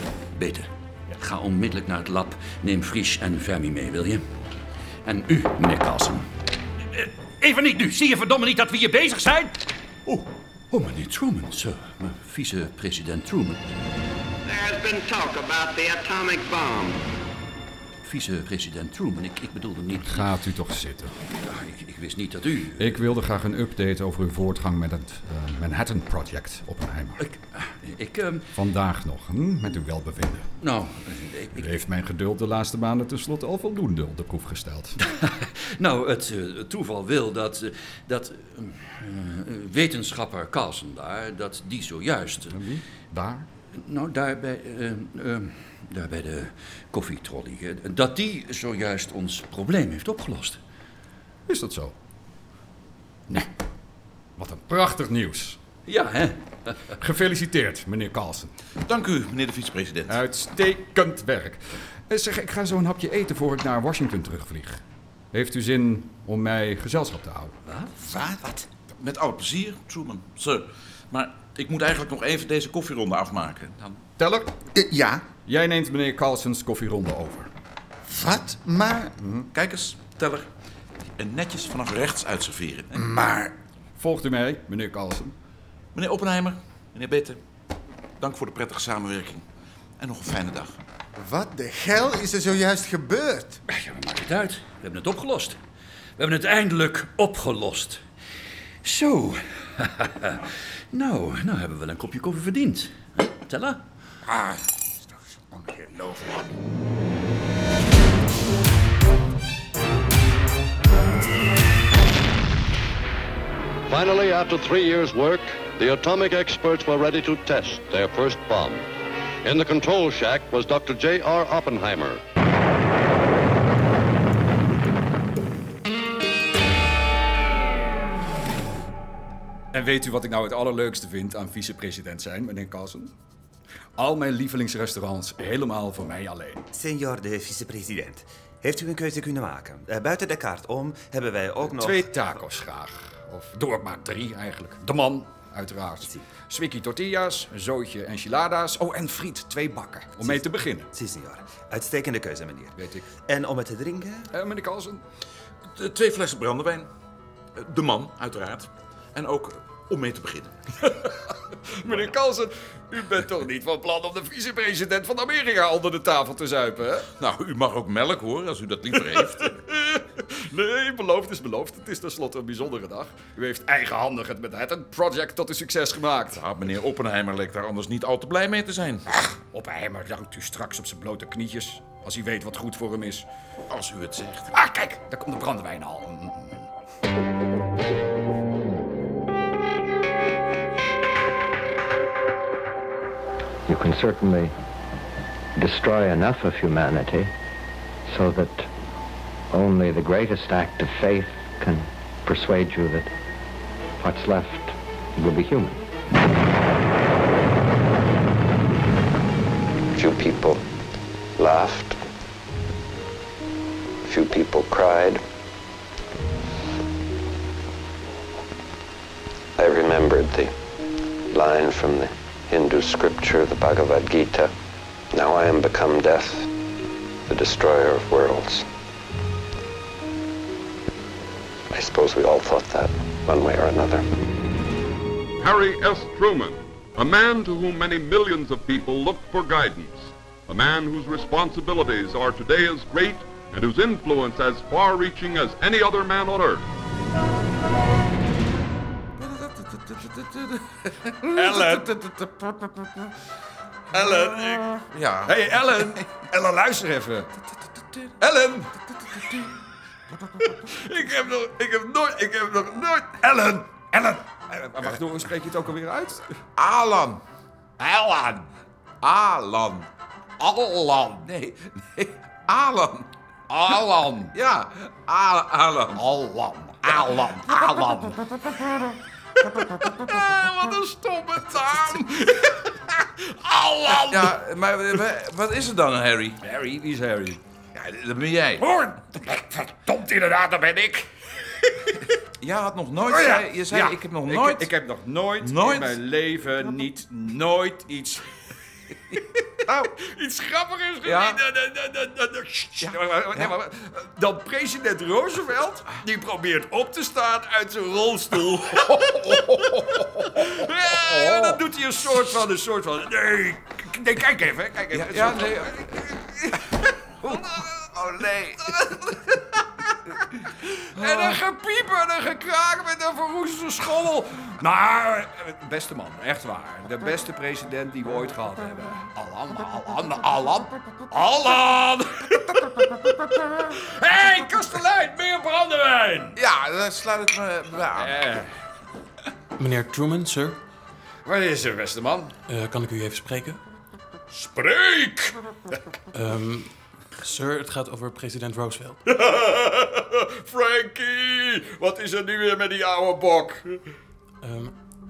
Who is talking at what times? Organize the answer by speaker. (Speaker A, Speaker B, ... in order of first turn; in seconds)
Speaker A: 0.3-4.2, 5.0-6.3, 6.9-13.7, 18.0-20.3, 21.4-22.9, 27.2-28.5, 30.6-31.8, 35.0-42.6, 43.7-50.6, 55.9-57.0, 93.7-95.6, 96.2-98.0, 98.8-103.8
Speaker B: 14.5-17.0, 210.0-210.6, 211.4-211.9, 214.1-215.2, 219.6-220.5, 221.3-224.5, 225.2-226.4, 227.3-228.6, 231.7-234.0
Speaker C: 20.1-21.1, 22.8-27.2, 28.5-30.5, 31.6-35.0, 42.5-43.5, 51.5-52.0, 54.4-55.6, 57.0-58.5, 60.1-64.8, 65.3-67.5, 74.2-74.5, 75.5-77.5, 79.2-79.5, 84.0-85.3, 129.7-133.1, 134.0-136.6, 141.6-150.9, 152.8-153.1, 154.3-155.0, 161.8-167.1, 169.1-176.4, 179.5-183.2, 184.5-186.6, 251.3-252.3, 253.9-254.7, 255.2-257.3, 258.2-259.4, 260.4-266.2, 267.8-268.4, 270.4-271.3, 273.5-274.4, 275.9-278.2, 279.7-282.0, 283.4-284.4, 286.4-287.4, 288.6-291.1, 293.1-298.2, 299.7-316.6, 317.2-319.4, 320.9-336.4, 337.9-338.5, 341.2-342.3, 344.3-345.4, 349.0-353.6
Speaker D: 58.8-60.2, 69.0-74.0, 79.5-80.5, 81.2-83.0, 85.9-87.4, 88.2-89.4, 90.0-90.8, 155.7-156.9, 157.6-160.6, 161.8-162.1, 167.2-169.5, 176.3-179.1, 183.7-184.5, 249.6-250.2, 251.4-251.9, 254.9-256.1, 266.6-267.2, 269.0-269.9, 271.3-273.1, 274.3-276.0, 276.8-277.9, 279.8-282.3, 283.9-286.4, 287.7-288.6, 292.4-294.7, 295.4-296.0, 301.0-301.4, 302.8-303.5, 310.8-311.6, 314.9-316.1, 317.2-318.9, 321.0-321.4, 336.4-338.1
Speaker E: 68.0-68.6, 74.7-75.2, 78.1-79.2, 82.9-83.5, 91.2-93.6, 105.5-106.2
Speaker F: 113.9-118.8, 119.4-122.2
Speaker G: 136.7-142.4, 150.2-152.7, 153.3-154.3
Speaker H: 193.7-194.5, 195.6-197.3, 198.1-198.7, 199.5-203.1, 204.0-205.8
Speaker I: 235.4-246.7
Speaker J: 339.6-340.6, 342.5-343.6, 346.1-349.0, 354.4-354.7